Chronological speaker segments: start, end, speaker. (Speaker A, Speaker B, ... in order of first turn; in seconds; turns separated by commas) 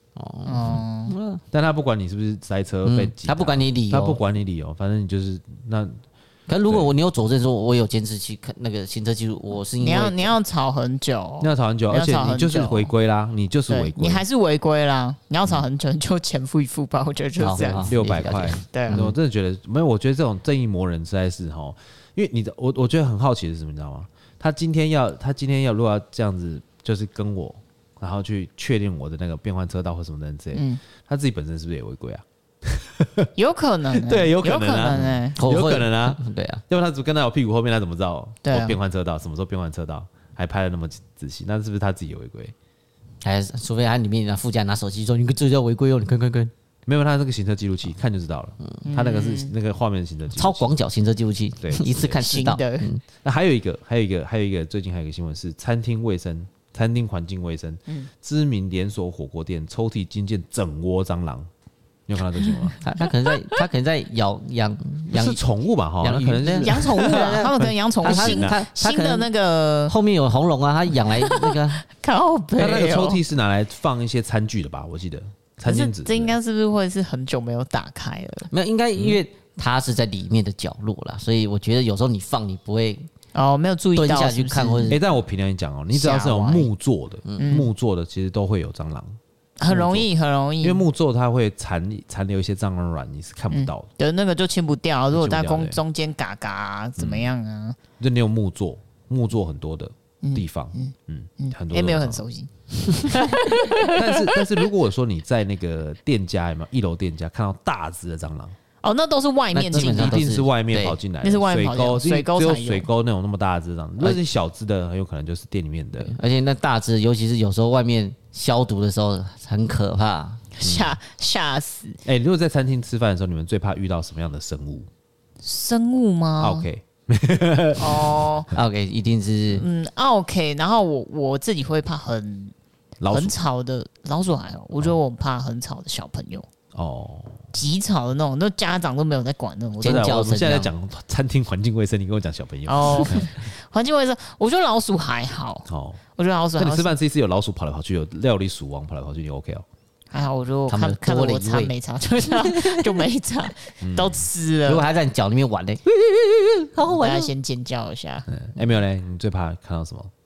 Speaker A: 0.2-1.4, Speaker B: 0.5-1.1, Speaker C: 1.5-6.0, Speaker A: 2.8-4.2, Speaker A: 6.5-10.3, Speaker C: 6.7-6.9, Speaker B: 9.8-12.9, Speaker C: 11.4-14.2, Speaker B: 13.7-17.9, Speaker A: 17.4-19.1, Speaker C: 17.7-33.3, Speaker B: 18.7-19.0, Speaker B: 30.5-30.8, Speaker B: 33.4-35.4, Speaker C: 33.9-42.5, Speaker A: 35.4-36.6, Speaker B: 38.4-38.8, Speaker A: 43.2-46.5, Speaker C: 46.9-50.7, Speaker B: 48.9-49.5, Speaker A: 50.4-53.0, Speaker C: 51.6-52.2, Speaker B: 52.1-52.9, Speaker C: 53.2-61.5, Speaker C: 62.1-62.8, Speaker B: 62.7-63.6, Speaker A: 62.8-65.4, Speaker C: 65.1-68.6, Speaker A: 66.0-69.3, Speaker B: 66.6-69.9, Speaker A: 69.9-71.8, Speaker B: 71.2-73.2, Speaker C: 72.6-76.4, Speaker B: 75.6-78.5, Speaker A: 78.5-83.1, Speaker B: 83.3-85.0, Speaker A: 84.0-85.0, Speaker C: 84.9-90.1, Speaker B: 85.9-86.7, Speaker A: 87.3-87.6, Speaker B: 87.4-87.7, Speaker B: 89.6-90.8, Speaker C: 90.6-93.9, Speaker B: 93.5-97.8, Speaker C: 95.1-95.8, Speaker C: 97.0-97.3, Speaker C: 98.0-102.2, Speaker B: 100.2-104.4, Speaker C: 103.8-108.5, Speaker B: 108.8-110.2, Speaker A: 109.5-111.0, Speaker C: 109.7-116.2, Speaker B: 111.2-112.9, Speaker A: 116.0-120.4, Speaker B: 120.6-122.0, Speaker C: 120.6-121.0, Speaker C: 122.0-124.9, Speaker B: 125.4-126.7, Speaker C: 126.4-128.3, Speaker B: 127.8-128.5, Speaker A: 128.5-129.7, Speaker B: 129.5-132.5, Speaker C: 133.0-133.3, Speaker B: 133.1-136.5, Speaker C: 136.7-137.4, Speaker B: 137.5-140.1, Speaker A: 139.8-140.7, Speaker C: 139.8-143.4, Speaker B: 142.7-146.9, Speaker C: 145.7-146.0, Speaker C: 146.6-149.7, Speaker B: 150.1-154.9, Speaker A: 150.7-151.7, Speaker A: 152.3-153.0, Speaker C: 153.8-154.2, Speaker A: 154.7-157.3, Speaker B: 156.8-158.3, Speaker C: 158.3-160.1